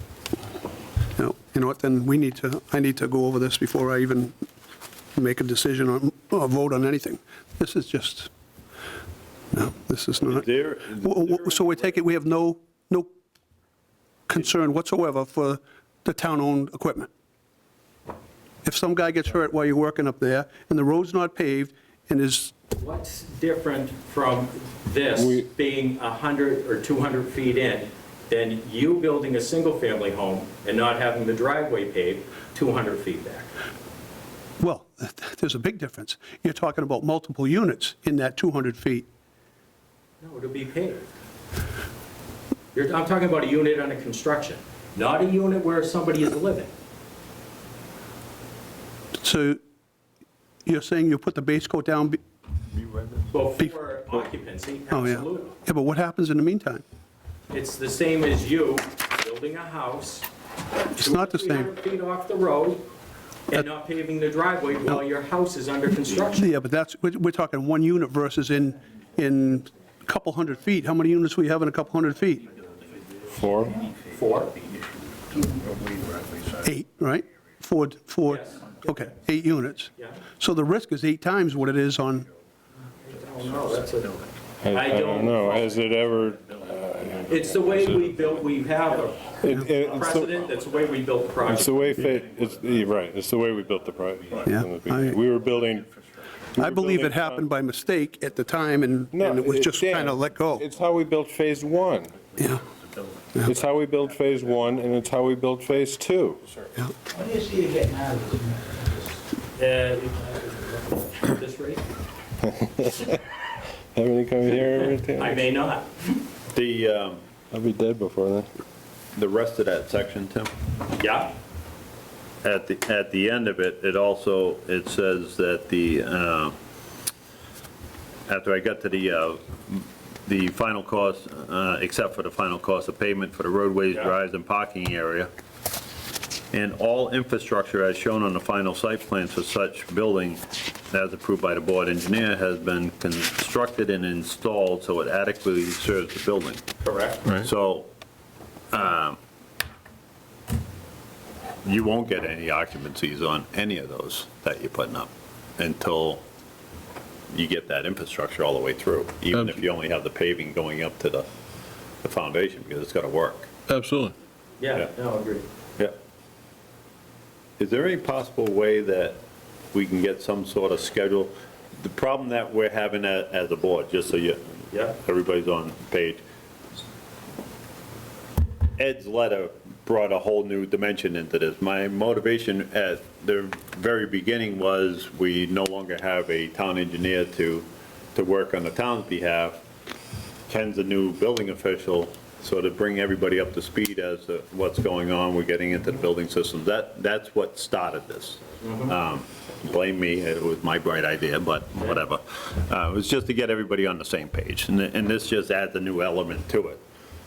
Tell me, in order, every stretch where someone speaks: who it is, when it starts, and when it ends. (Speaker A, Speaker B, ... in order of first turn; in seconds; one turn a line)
Speaker A: 1.1-4.3
Speaker A: 5.2-8.3
Speaker A: 9.5-13.1
Speaker B: 10.2-11.7
Speaker A: 14.3-17.1
Speaker A: 18.6-22.5
Speaker C: 22.7-33.5
Speaker D: 25.1-25.5
Speaker A: 34.6-39.1
Speaker C: 40.2-41.1
Speaker C: 42.7-46.7
Speaker A: 49.2-49.6
Speaker A: 50.6-52.2
Speaker C: 53.3-55.5
Speaker A: 54.9-56.8
Speaker C: 57.5-60.3
Speaker C: 60.8-62.8
Speaker A: 61.0-61.7
Speaker C: 63.5-66.5
Speaker A: 66.2-72.5
Speaker E: 72.6-73.2
Speaker D: 73.3-73.8
Speaker E: 73.8-76.7
Speaker C: 74.1-74.5
Speaker A: 76.6-82.2
Speaker C: 78.3-78.6
Speaker C: 83.0-84.2
Speaker E: 83.2-93.0
Speaker D: 84.6-88.0
Speaker C: 84.7-85.6
Speaker C: 87.3-89.2
Speaker D: 89.4-90.3
Speaker C: 89.9-91.7
Speaker D: 91.4-95.9
Speaker E: 94.1-94.5
Speaker A: 94.5-95.2
Speaker E: 95.3-96.3
Speaker D: 96.5-97.5
Speaker A: 96.6-100.6
Speaker D: 99.1-102.1
Speaker E: 102.3-103.6
Speaker A: 102.4-102.6
Speaker D: 103.5-106.4
Speaker E: 104.3-104.9
Speaker E: 107.1-108.9
Speaker C: 109.5-111.8
Speaker D: 112.4-113.2
Speaker D: 113.9-115.5
Speaker C: 114.7-116.2
Speaker B: 116.5-117.2
Speaker D: 117.5-118.5
Speaker B: 119.1-120.5
Speaker C: 120.9-121.3
Speaker B: 122.4-126.5
Speaker B: 128.3-135.3
Speaker B: 136.5-146.6
Speaker C: 146.8-147.3
Speaker D: 147.2-147.5
Speaker B: 147.3-147.9
Speaker B: 148.7-149.2
Speaker B: 151.6-156.2
Speaker B: 157.3-161.3
Speaker D: 159.3-159.6
Speaker B: 162.0-163.5
Speaker D: 163.7-164.1
Speaker C: 164.6-165.4
Speaker B: 167.6-169.2
Speaker B: 169.7-176.2
Speaker C: 174.7-174.9
Speaker B: 178.8-189.6
Speaker B: 190.5-206.8
Speaker C: 198.6-198.9